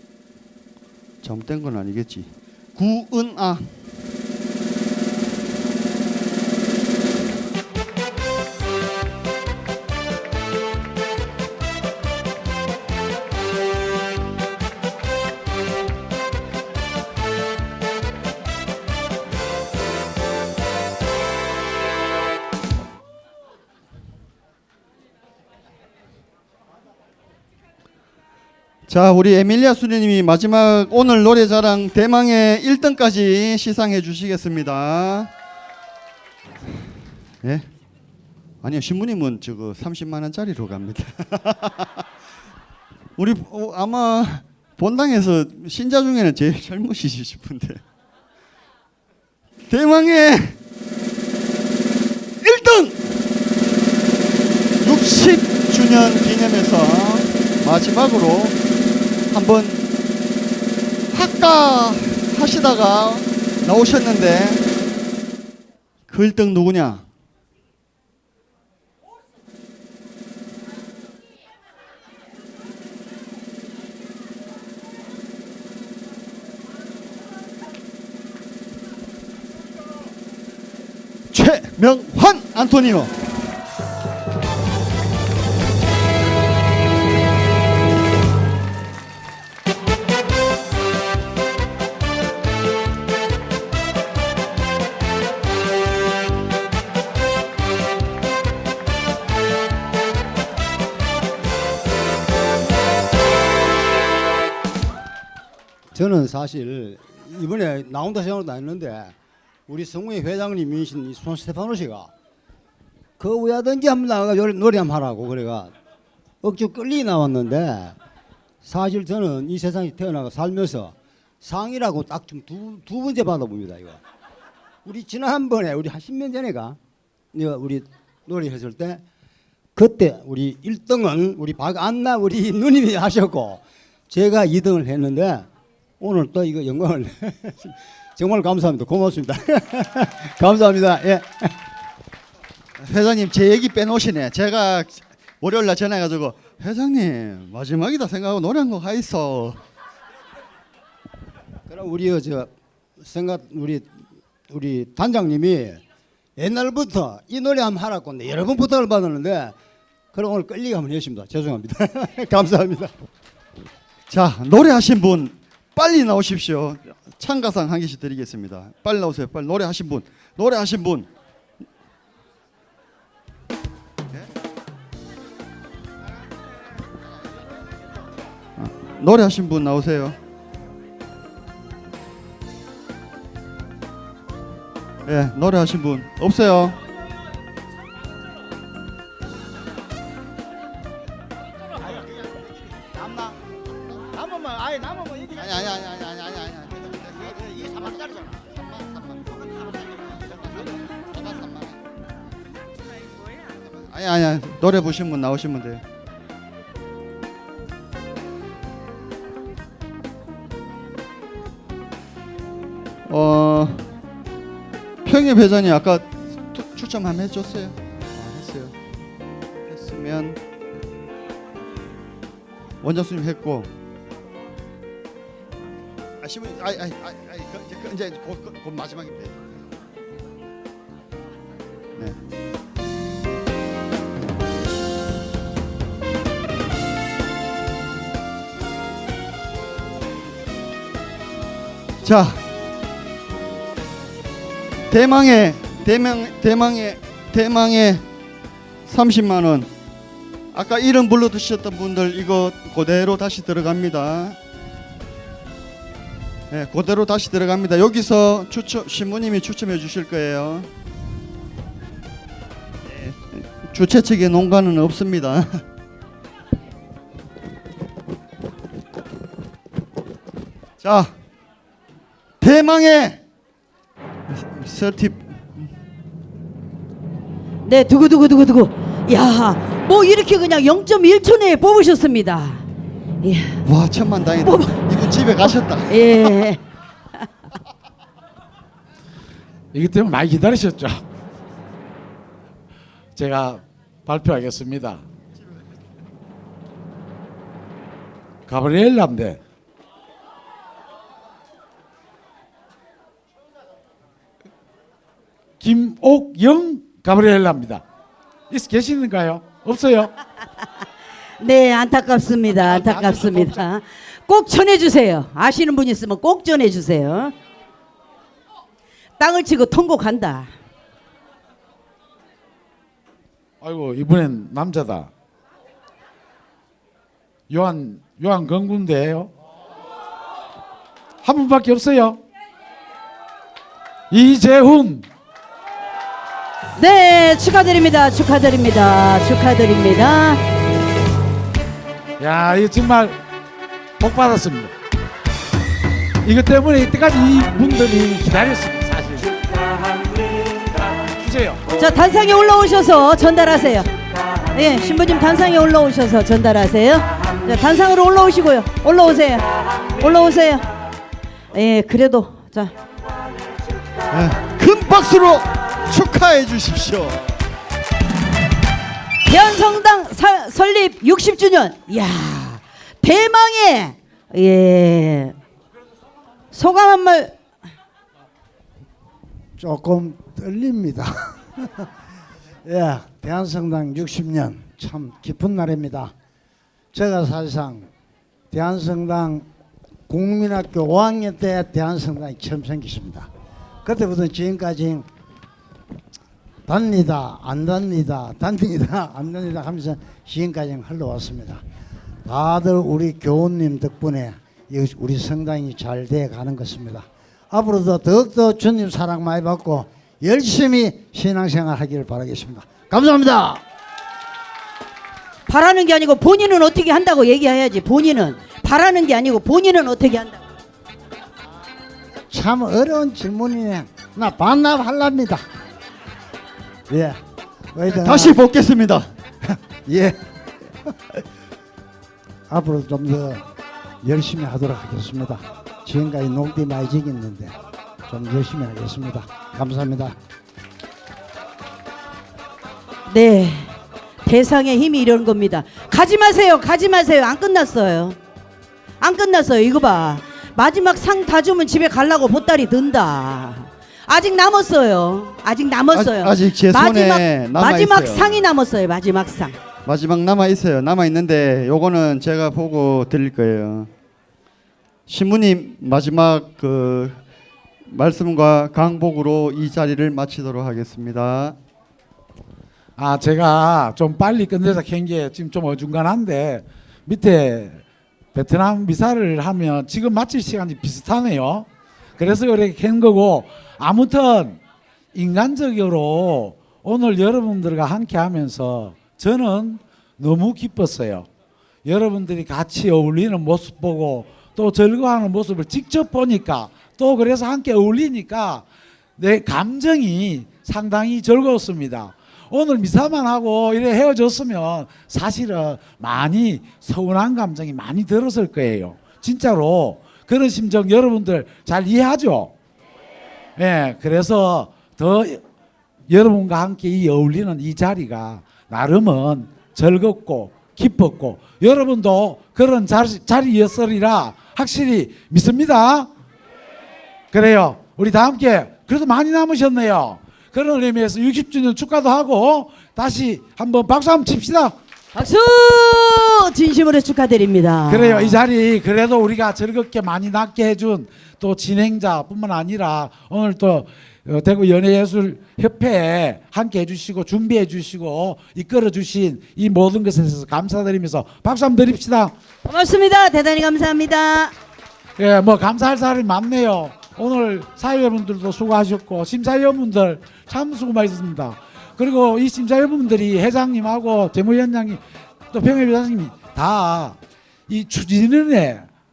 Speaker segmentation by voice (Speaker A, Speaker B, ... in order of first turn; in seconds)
Speaker A: 1.2-3.8, 28.9-35.3, 38.6-41.9, 43.2-47.8, 49.7-50.6, 52.4-53.0, 54.8-58.6, 59.3-59.9, 61.1-64.6, 66.1-67.1, 81.3-83.1, 142.8-149.6, 164.1-171.1, 178.6-180.2, 185.1-186.8, 195.3-201.8, 203.8-205.8, 213.1-213.8, 215.1-218.8, 219.7-220.4, 222.8-223.7, 226.2-229.4, 242.0-242.4, 244.9-248.1, 248.9-249.7, 250.5-254.4, 256.5-260.7, 262.9-265.5, 270.8-271.1, 272.4-273.2, 274.3-275.7, 283.6-286.4, 364.1-367.4, 427.9-429.1, 455.9-458.5, 459.8-463.9, 465.1-467.2, 467.9-471.6
Speaker B: 105.9-109.1, 109.7-112.1, 113.2-115.7, 116.4-118.0, 118.6-124.0, 124.8-126.8, 127.3-129.0, 129.8-135.5, 136.0-141.5, 151.7-153.9, 154.5-155.8, 156.4-159.6, 160.1-162.9
Speaker C: 277.6-282.6, 283.2-283.6, 284.4-284.9, 285.4-286.6, 311.4-317.3, 319.2-320.5, 336.8-340.4, 351.8-353.9, 354.5-360.7, 361.5-362.7, 369.2-375.4, 376.5-377.4, 415.5-420.4, 443.1-448.2, 449.0-459.6, 535.1-538.4, 552.6-554.5
Speaker D: 289.7-291.0, 293.1-295.1, 298.5-299.4, 305.6-307.8, 308.5-310.1, 312.8-313.6, 323.6-325.1, 327.5-329.3, 331.2-332.2, 334.1-335.1, 342.2-343.2, 344.0-344.7, 346.2-349.3, 351.1-351.6, 473.0-477.8, 478.3-481.7, 482.2-484.6, 485.1-491.3, 491.9-498.7, 499.2-512.5, 513.6-515.4, 516.1-526.1, 527.3-534.7, 537.9-552.4, 555.2-568.9
Speaker E: 379.6-381.4, 382.6-386.1, 386.9-387.9, 388.5-389.5, 390.1-393.3, 393.8-395.1, 396.7-401.6, 402.3-413.6, 422.3-425.4, 426.9-427.2, 427.7-428.4, 429.6-430.2, 432.5-433.4, 434.0-437.6, 438.1-440.2